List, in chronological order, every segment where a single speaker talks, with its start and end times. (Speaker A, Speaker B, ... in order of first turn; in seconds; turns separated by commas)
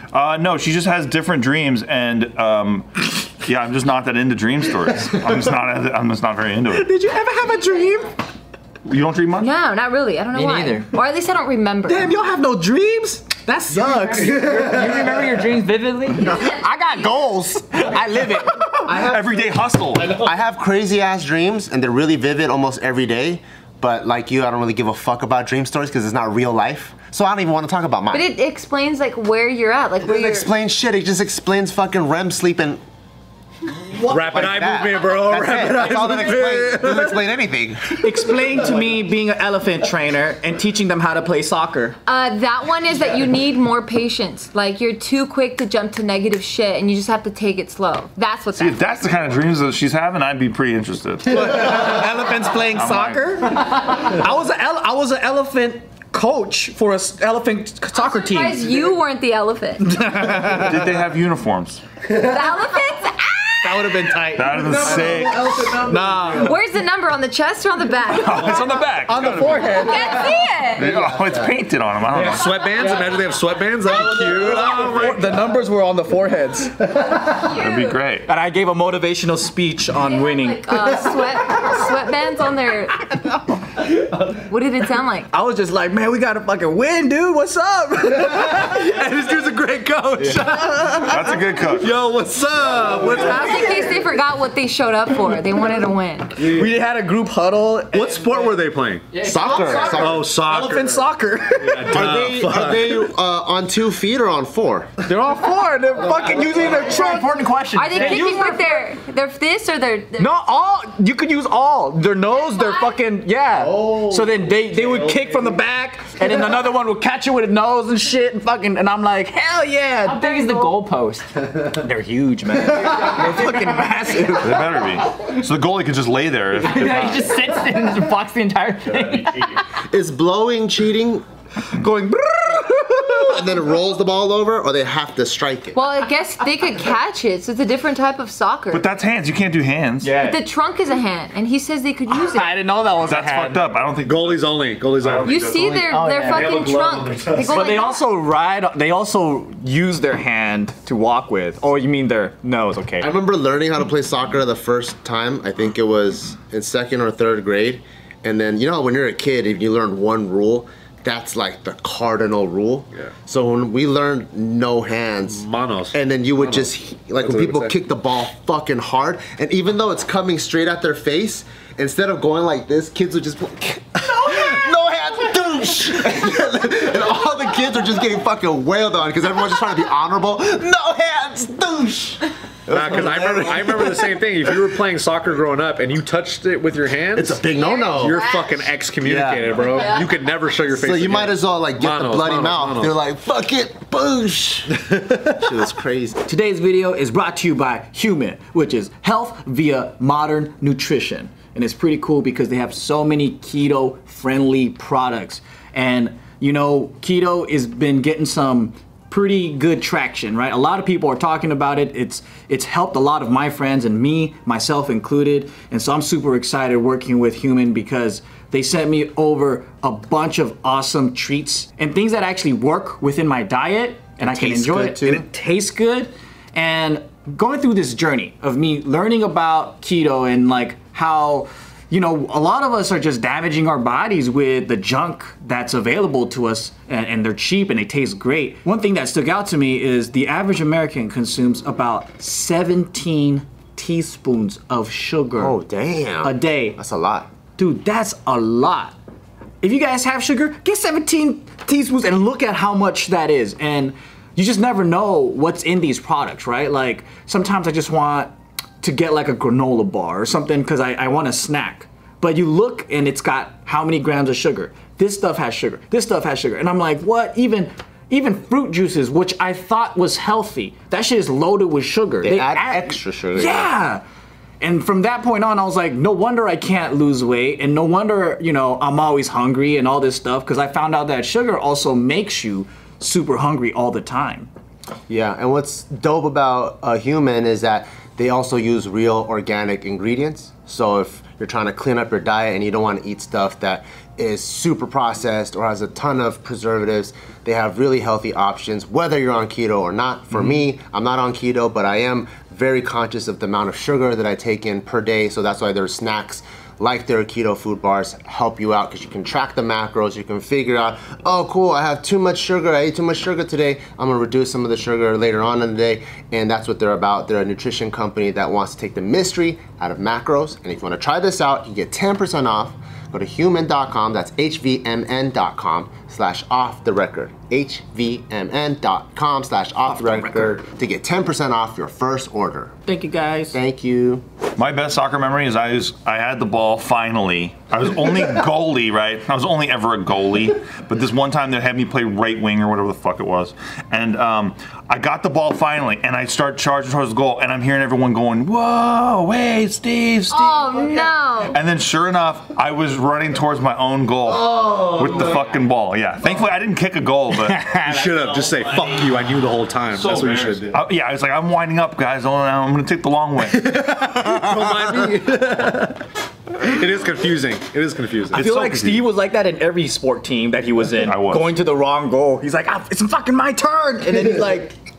Speaker A: 0.1-6.9, Speaker B: 6.7-8.1, Speaker A: 8.8-9.5, Speaker C: 9.4-12.1, Speaker D: 10.3-10.9, Speaker B: 11.8-15.1, Speaker D: 14.1-16.3, Speaker B: 16.2-18.8, Speaker C: 16.2-16.6, Speaker E: 18.9-19.5, Speaker A: 18.9-20.2, Speaker E: 20.0-28.2, Speaker C: 28.1-30.5, Speaker E: 30.0-32.8, Speaker F: 34.0-37.2, Speaker E: 34.1-38.1, Speaker B: 38.0-42.0, Speaker C: 42.0-49.0, Speaker A: 48.5-51.9, Speaker B: 51.3-58.7, Speaker A: 52.7-53.2, Speaker C: 57.9-60.0, Speaker B: 59.8-60.9, Speaker A: 60.4-61.8, Speaker B: 62.1-62.5, Speaker C: 62.1-64.2, Speaker B: 63.6-66.6, Speaker A: 64.3-65.8, Speaker F: 64.7-65.2, Speaker F: 65.8-66.4, Speaker C: 66.4-68.8, Speaker A: 68.1-70.1, Speaker B: 69.0-70.5, Speaker C: 69.7-71.0, Speaker A: 70.7-72.6, Speaker F: 72.1-75.6, Speaker B: 72.2-73.0, Speaker B: 73.8-77.4, Speaker C: 77.4-78.0, Speaker A: 77.5-78.3, Speaker B: 78.2-81.8, Speaker C: 79.9-83.1, Speaker C: 84.5-85.3, Speaker B: 85.3-88.8, Speaker F: 88.2-93.7, Speaker B: 90.2-91.4, Speaker A: 91.1-91.9, Speaker B: 92.9-93.9, Speaker C: 93.2-96.4, Speaker B: 96.4-98.6, Speaker F: 96.4-96.7, Speaker F: 97.9-103.0, Speaker D: 99.1-100.1, Speaker E: 99.2-100.3, Speaker B: 99.4-102.1, Speaker E: 101.9-105.0, Speaker B: 105.0-108.9, Speaker E: 106.2-106.8, Speaker D: 106.9-108.5, Speaker C: 107.8-110.3, Speaker B: 110.2-120.7, Speaker C: 112.4-112.9, Speaker E: 113.6-114.5, Speaker D: 120.0-121.3, Speaker B: 121.7-124.7, Speaker A: 124.4-127.4, Speaker D: 126.6-129.6, Speaker E: 129.9-131.2, Speaker B: 131.7-133.5, Speaker E: 132.5-135.8, Speaker C: 135.7-138.9, Speaker A: 138.7-140.2, Speaker B: 140.0-140.4, Speaker C: 140.2-142.5, Speaker B: 142.1-143.7, Speaker A: 143.1-145.9, Speaker F: 144.0-145.7, Speaker C: 145.2-148.0, Speaker B: 145.9-146.5, Speaker F: 146.2-147.7, Speaker B: 147.4-153.1, Speaker E: 153.0-184.5, Speaker F: 165.2-167.7, Speaker B: 174.2-174.6, Speaker F: 182.7-192.9, Speaker E: 187.2-188.2, Speaker C: 187.5-188.6, Speaker B: 189.0-189.8, Speaker C: 189.6-190.2, Speaker E: 190.7-196.2, Speaker B: 196.2-245.6, Speaker E: 224.2-225.2, Speaker E: 245.4-247.3, Speaker B: 246.2-246.8, Speaker B: 247.6-248.9, Speaker B: 249.6-274.0, Speaker E: 272.2-273.7, Speaker B: 274.6-284.5, Speaker E: 285.1-332.8, Speaker B: 329.9-330.6, Speaker B: 332.9-333.6, Speaker E: 333.5-334.2, Speaker A: 334.6-350.8, Speaker C: 350.3-351.6, Speaker A: 351.5-357.7, Speaker B: 357.3-359.1, Speaker F: 357.7-360.8, Speaker A: 360.0-363.9, Speaker F: 363.4-368.5, Speaker A: 368.3-369.1, Speaker B: 368.3-374.8, Speaker A: 370.9-371.5